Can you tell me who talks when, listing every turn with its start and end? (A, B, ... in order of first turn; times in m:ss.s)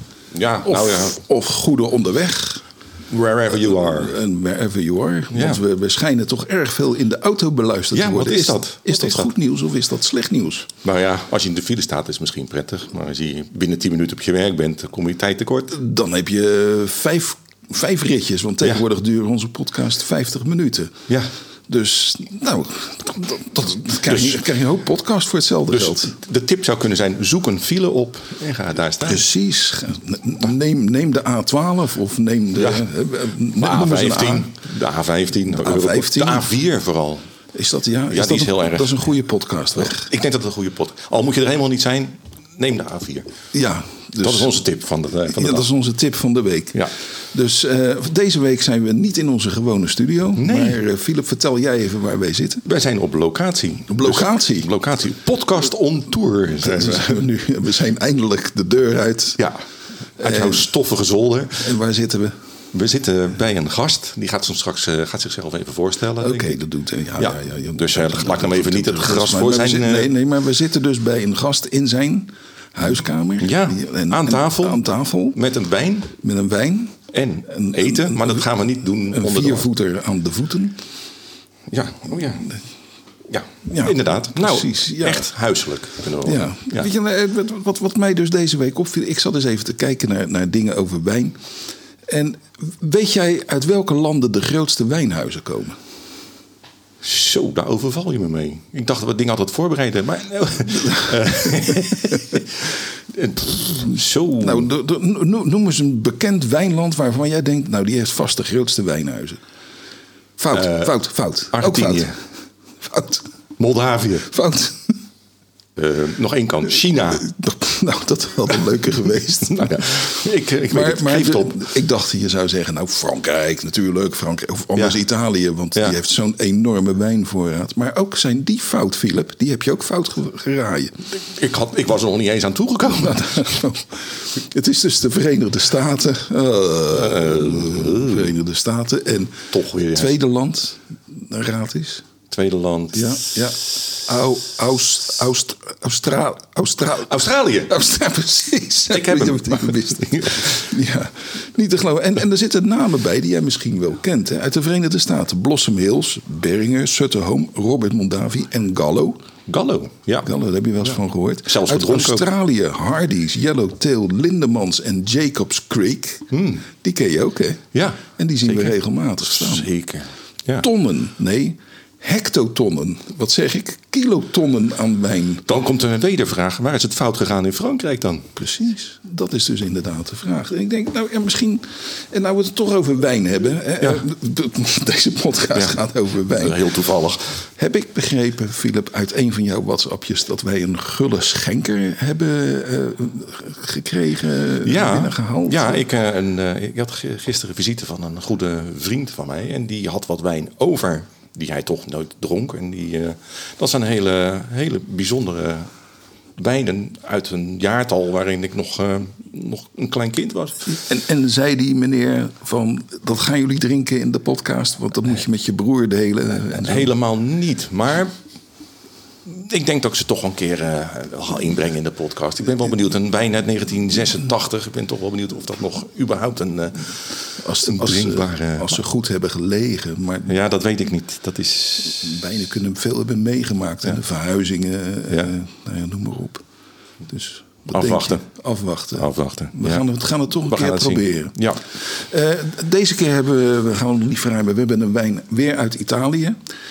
0:00.3-0:01.2 A
0:00.6-0:02.6 B
0:03.1-0:04.2 A
0:03.5-0:10.7 B
0:05.3-0:05.6 A
0:07.9-0:09.3 A
0:10.8-0:15.8 A
0:15.7-0:21.0 B
0:21.7-0:26.1 B
0:24.0-0:24.4 A
0:25.7-0:29.3 A
0:29.0-0:34.5 B
0:32.6-0:32.8 A
0:33.6-0:37.3 A
0:35.5-0:36.5 B
0:37.5-0:40.1 B
0:38.1-0:39.0 A
0:39.8-0:43.3 A
0:43.5-0:44.6 B
0:44.2-0:45.6 A
0:45.3-0:52.6 B
0:50.3-0:50.8 A
0:52.6-0:57.2 A
0:53.9-0:54.7 B
0:56.6-0:59.4 B
1:00.2-1:01.7 A
1:00.2-1:00.7 B
1:01.6-1:02.4 B
1:02.7-1:06.6 A
1:06.2-1:15.4 B
1:07.2-1:10.1 A
1:13.4-1:16.1 A
1:16.2-1:18.4 B
1:17.1-1:19.6 A
1:19.1-1:20.8 B
1:21.7-1:22.5 A
1:23.3-1:26.9 A
1:23.6-1:25.3 B
1:26.2-1:31.4 B
1:32.1-1:35.8 B
1:37.0-1:44.7 A
1:40.8-1:42.2 B
1:44.4-1:49.4 B
1:50.4-1:52.2 B
1:50.5-1:50.9 A
1:51.5-1:52.2 A
1:52.8-1:53.2 B
1:53.6-1:54.3 A
1:54.3-1:55.0 B
1:55.8-1:57.3 A
1:57.1-2:00.1 B
1:59.5-2:01.7 A
2:00.7-2:11.0 B
2:11.1-2:13.5 A
2:12.8-2:22.0 B
2:16.9-2:18.3 A
2:19.5-2:20.2 A
2:22.3-2:23.5 A
2:22.9-2:39.2 B
2:27.0-2:27.8 A
2:28.9-2:30.7 A
2:39.5-2:40.3 A
2:40.2-2:49.7 B
2:40.8-2:42.2 A
2:46.3-2:46.6 A
2:47.7-2:50.6 A
2:50.6-2:55.4 B
2:55.5-2:58.3 A
2:58.4-3:06.7 B
3:05.5-3:07.4 A
3:07.5-3:15.8 B
3:14.6-3:25.7 A
3:26.4-3:30.7 A
3:30.6-3:36.9 B
3:36.5-3:38.1 A
3:39.2-3:48.8 A
3:47.4-3:50.4 B
3:50.3-3:52.1 A
3:51.8-3:56.4 B
3:57.1-4:06.4 B
3:57.7-3:58.3 A
3:58.9-3:59.8 A
4:00.4-4:01.6 A